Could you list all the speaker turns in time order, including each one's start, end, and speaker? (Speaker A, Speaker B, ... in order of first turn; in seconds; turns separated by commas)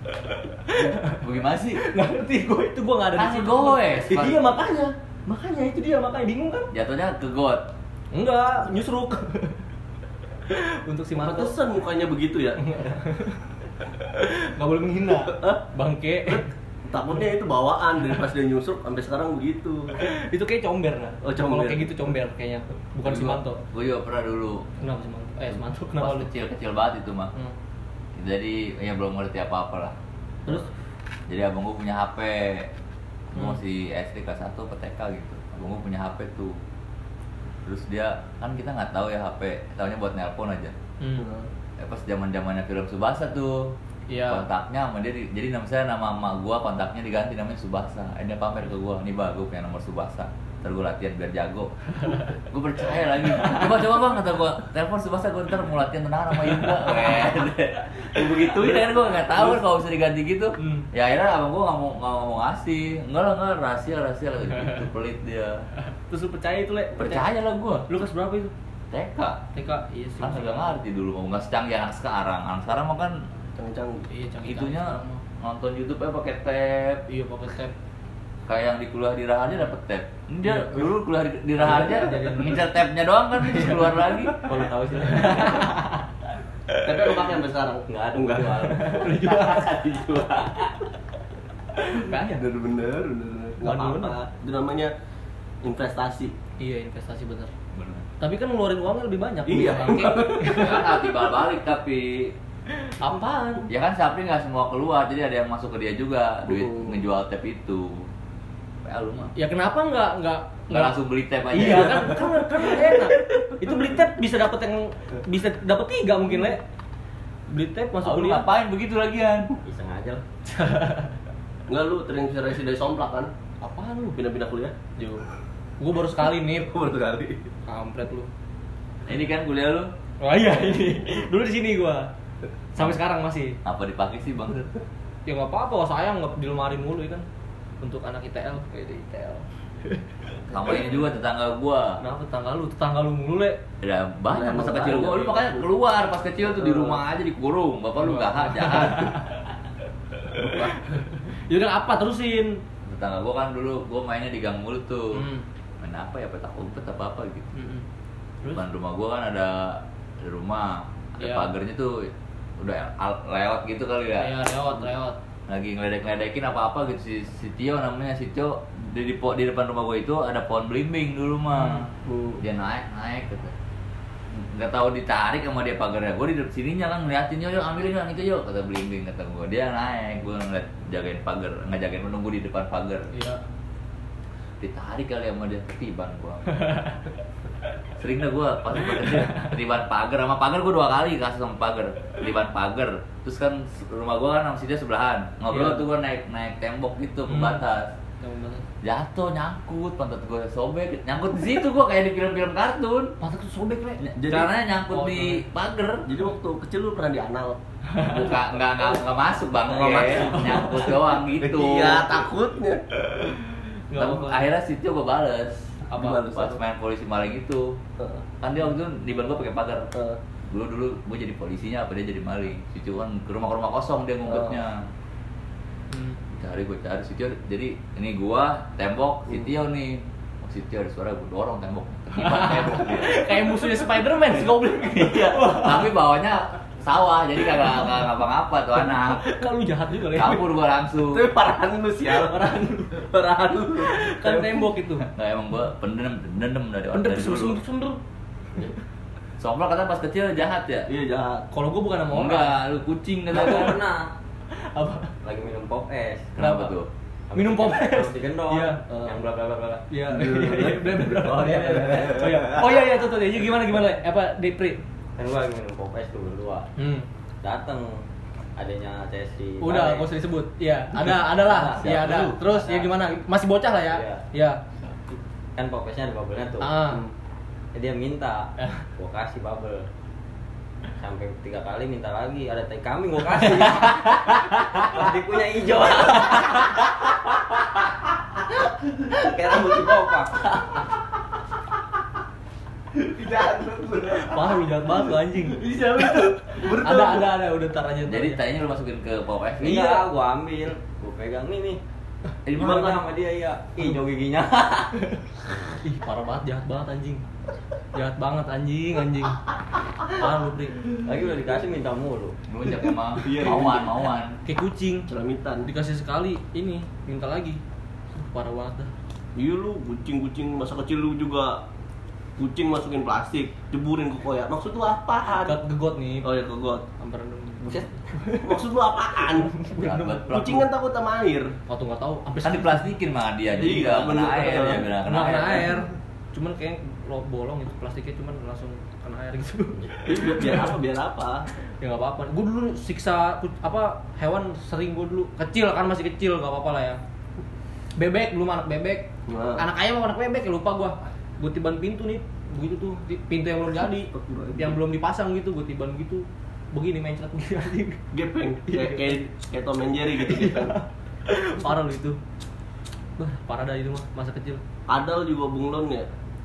Speaker A: 0.5-1.2, Speaker B: 1.2-1.8, Speaker A: 1.7-6.7, Speaker B: 3.1-4.5, Speaker B: 6.7-7.7, Speaker A: 8.1-9.6, Speaker A: 10.5-11.5, Speaker C: 11.2-12.6, Speaker A: 12.6-13.4, Speaker A: 14.1-16.5, Speaker C: 15.3-15.6, Speaker C: 16.3-20.1, Speaker A: 20.0-23.6, Speaker C: 21.2-22.1, Speaker B: 23.0-24.7, Speaker A: 24.8-26.3, Speaker B: 26.0-27.3, Speaker B: 28.1-29.9, Speaker B: 31.3-32.7, Speaker B: 33.3-36.6, Speaker B: 37.6-40.7, Speaker A: 41.0-41.3, Speaker C: 41.2-41.5, Speaker B: 41.8-43.7, Speaker A: 44.1-44.5, Speaker B: 44.2-65.7, Speaker A: 60.6-60.8, Speaker A: 65.9-67.2, Speaker B: 67.0-67.9, Speaker A: 67.9-68.5, Speaker B: 68.9-69.4, Speaker A: 69.5-70.7, Speaker B: 70.2-73.2, Speaker C: 73.6-74.1, Speaker A: 74.1-75.2, Speaker B: 74.4-77.0, Speaker A: 77.1-77.7, Speaker B: 78.5-84.4, Speaker A: 80.4-80.9, Speaker A: 81.5-82.7, Speaker A: 83.3-84.5, Speaker D: 84.4-85.7, Speaker A: 85.0-86.0, Speaker C: 86.8-89.1, Speaker D: 87.9-90.6, Speaker A: 88.8-90.0, Speaker C: 91.8-94.9, Speaker A: 91.9-92.4, Speaker A: 93.6-94.2, Speaker C: 95.6-96.3, Speaker A: 96.6-97.5, Speaker B: 97.7-98.1, Speaker A: 98.2-100.9, Speaker C: 99.5-100.8, Speaker B: 100.1-102.3, Speaker A: 102.8-103.7, Speaker B: 103.7-108.1, Speaker C: 106.5-107.0, Speaker B: 108.8-109.3, Speaker A: 109.3-110.9, Speaker B: 110.7-112.4, Speaker A: 111.5-116.6, Speaker A: 117.5-118.5, Speaker B: 118.0-119.5, Speaker D: 119.7-120.2, Speaker A: 120.5-121.1, Speaker C: 121.7-123.3, Speaker A: 123.6-124.2, Speaker C: 124.1-125.2, Speaker A: 125.8-126.7, Speaker C: 126.5-127.5, Speaker A: 127.7-128.3, Speaker B: 129.0-129.9, Speaker A: 130.2-132.1, Speaker A: 132.7-133.6, Speaker B: 133.6-134.7, Speaker A: 135.2-137.2, Speaker A: 137.8-141.1, Speaker B: 140.5-142.0, Speaker A: 142.0-143.6, Speaker B: 143.8-149.2, Speaker C: 144.3-145.4, Speaker C: 146.7-147.0, Speaker A: 148.0-149.3, Speaker A: 150.4-152.6, Speaker B: 152.8-155.3, Speaker A: 155.1-155.4, Speaker B: 155.8-157.5, Speaker A: 157.5-157.8, Speaker B: 158.5-164.3, Speaker A: 161.2-161.5, Speaker A: 164.2-165.2, Speaker B: 165.5-171.9, Speaker A: 171.6-171.8, Speaker C: 172.0-172.4, Speaker B: 172.4-173.5, Speaker B: 174.3-183.1, Speaker A: 183.1-183.4, Speaker B: 184.6-186.4, Speaker A: 186.6-186.9, Speaker B: 188.0-197.9, Speaker A: 195.5-195.8, Speaker A: 197.3-197.6, Speaker A: 198.2-198.7, Speaker B: 198.8-203.2, Speaker A: 203.2-204.0, Speaker B: 204.0-206.1, Speaker C: 204.2-204.5, Speaker A: 204.9-205.4, Speaker C: 206.1-207.6, Speaker B: 208.0-212.1, Speaker C: 209.7-213.3, Speaker D: 209.9-210.6, Speaker A: 213.9-214.4, Speaker B: 214.0-217.8, Speaker C: 215.9-216.6, Speaker B: 218.4-219.9, Speaker B: 220.5-224.8, Speaker C: 224.3-224.6, Speaker A: 225.9-226.2, Speaker B: 226.3-233.7, Speaker A: 232.1-235.9, Speaker B: 234.4-239.2, Speaker A: 237.5-238.0, Speaker A: 238.8-240.5, Speaker B: 240.1-241.3, Speaker C: 241.1-244.7, Speaker A: 242.1-243.0, Speaker A: 243.8-245.1, Speaker B: 245.0-247.6, Speaker A: 246.9-248.0, Speaker B: 249.4-250.9, Speaker C: 250.9-251.5, Speaker A: 251.5-252.6, Speaker B: 252.1-253.8, Speaker A: 253.3-253.7, Speaker D: 253.3-254.1, Speaker A: 254.5-255.1, Speaker D: 255.2-256.3, Speaker B: 256.4-256.9, Speaker A: 256.4-256.8, Speaker D: 257.3-259.8, Speaker A: 257.3-258.8, Speaker A: 259.9-264.8, Speaker C: 260.1-261.0, Speaker D: 260.7-262.4, Speaker D: 265.2-266.7, Speaker A: 266.8-267.1, Speaker D: 267.4-268.0, Speaker D: 268.6-270.1, Speaker A: 269.6-274.6, Speaker D: 271.1-273.0, Speaker D: 273.9-274.2, Speaker D: 275.6-277.0, Speaker A: 276.6-277.0, Speaker D: 277.7-279.9, Speaker A: 278.6-278.8, Speaker D: 281.0-286.8, Speaker D: 288.8-290.6, Speaker C: 292.9-294.7, Speaker A: 294.1-298.4, Speaker C: 295.5-297.3, Speaker B: 298.1-299.9, Speaker D: 299.6-301.8, Speaker A: 299.6-300.0, Speaker B: 302.4-303.0, Speaker D: 302.6-304.9, Speaker A: 305.8-307.2, Speaker A: 307.9-309.4, Speaker A: 310.0-310.9, Speaker D: 311.0-312.4, Speaker B: 312.5-314.4, Speaker C: 313.2-313.9, Speaker A: 314.4-315.1, Speaker C: 315.1-315.7, Speaker A: 315.6-317.6, Speaker A: 318.1-318.9, Speaker C: 319.3-321.6, Speaker C: 322.4-325.6, Speaker A: 325.3-326.3, Speaker C: 326.2-326.8, Speaker A: 327.0-328.6, Speaker C: 328.4-329.5, Speaker A: 329.3-330.5, Speaker B: 329.6-330.7, Speaker C: 330.3-331.5, Speaker A: 331.7-332.9, Speaker B: 332.4-335.8, Speaker C: 333.5-334.9, Speaker A: 335.0-340.5, Speaker C: 340.0-341.5, Speaker A: 341.8-347.0, Speaker A: 348.0-358.0, Speaker C: 349.3-349.6, Speaker C: 354.1-354.8, Speaker C: 358.1-360.8, Speaker A: 358.7-359.2, Speaker A: 360.2-362.2, Speaker A: 363.2-364.6, Speaker C: 364.9-366.1